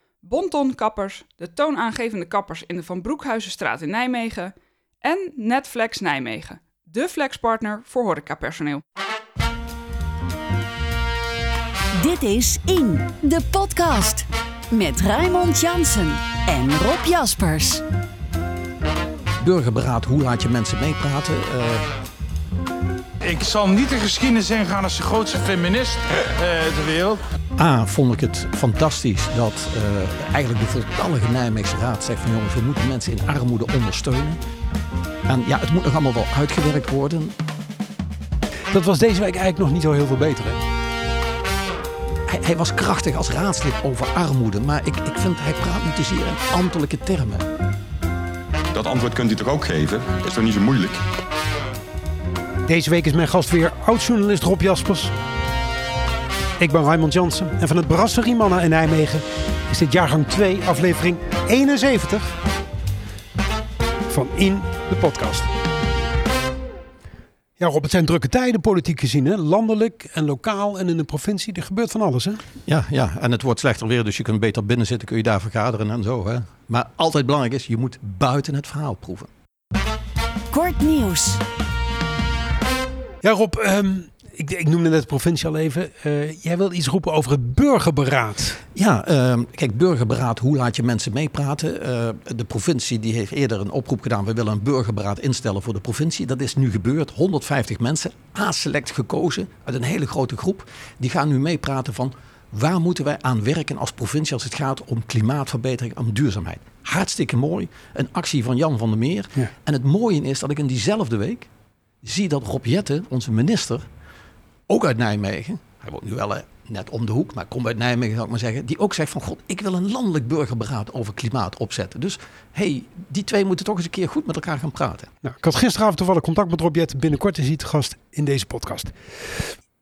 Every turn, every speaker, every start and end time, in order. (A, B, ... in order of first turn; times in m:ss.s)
0:00.2-0:08.8 A
0:12.0-0:17.8 B
0:19.4-0:21.9 C
0:23.2-0:27.2 D
0:27.6-0:34.4 C
0:35.3-0:37.4 C
0:38.7-0:40.6 E
0:42.3-0:47.5 C
0:48.7-0:51.0 F
0:52.7-0:55.1 E
0:56.6-1:02.4 E
1:04.1-1:05.5 E
1:07.6-1:12.4 E
1:12.7-1:19.3 C
1:20.5-1:21.4 B
1:23.2-1:28.6 E
1:28.8-1:51.5 C
1:52.0-1:53.9 C
1:54.7-2:05.1 C
2:05.2-2:09.5 E